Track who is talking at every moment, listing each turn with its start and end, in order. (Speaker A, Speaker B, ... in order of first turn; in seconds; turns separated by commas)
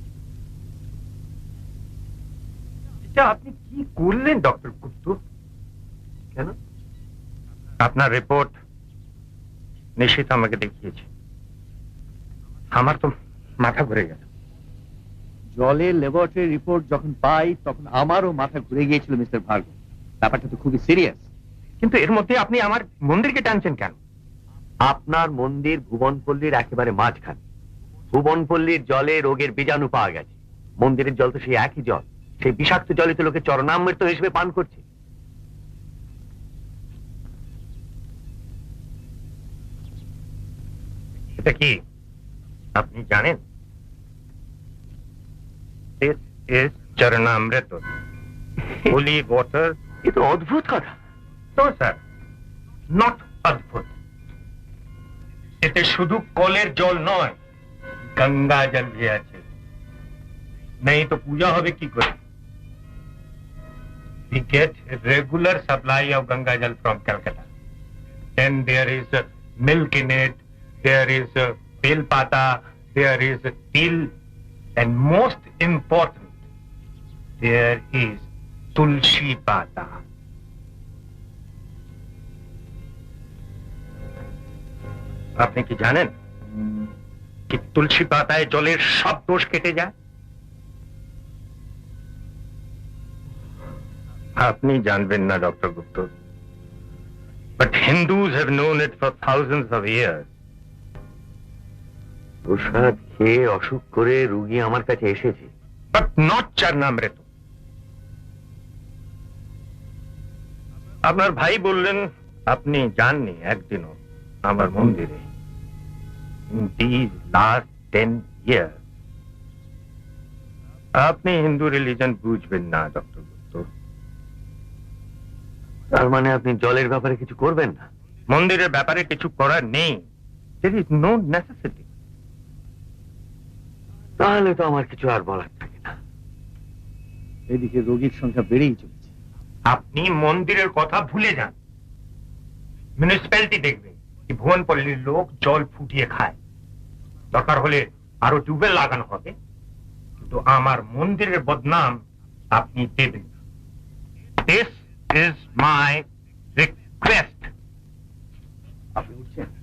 Speaker A: 3.0-5.2, Speaker A: 7.8-8.6, Speaker A: 10.0-11.1, Speaker A: 12.7-14.2, Speaker B: 15.6-21.2, Speaker A: 21.8-24.0, Speaker C: 24.9-27.4, Speaker B: 25.3-25.9, Speaker C: 28.1-34.8, Speaker A: 41.4-41.8, Speaker A: 42.8-43.4, Speaker A: 46.0-47.9, Speaker A: 48.9-49.8, Speaker C: 50.0-51.0, Speaker A: 51.6-52.0, Speaker A: 52.9-53.9, Speaker A: 55.6-57.4, Speaker A: 58.2-59.5, Speaker A: 60.8-62.2, Speaker A: 64.3-67.5, Speaker A: 68.4-74.1, Speaker A: 74.8-76.3, Speaker A: 77.4-80.0, Speaker A: 85.4-86.1, Speaker A: 87.5-89.9, Speaker A: 94.4-96.1, Speaker A: 97.6-100.3, Speaker C: 102.5-105.5, Speaker A: 105.9-107.2, Speaker A: 111.0-115.2, Speaker A: 116.5-118.8, Speaker A: 121.0-123.7, Speaker C: 125.9-127.9, Speaker A: 128.3-130.0, Speaker A: 130.6-131.8, Speaker C: 134.2-136.0, Speaker B: 137.5-139.1, Speaker A: 139.7-141.6, Speaker A: 143.0-146.4, Speaker A: 147.3-149.3, Speaker A: 150.2-152.0, Speaker A: 152.5-153.3, Speaker A: 154.4-156.1, Speaker A: 156.6-157.5, Speaker B: 159.0-159.5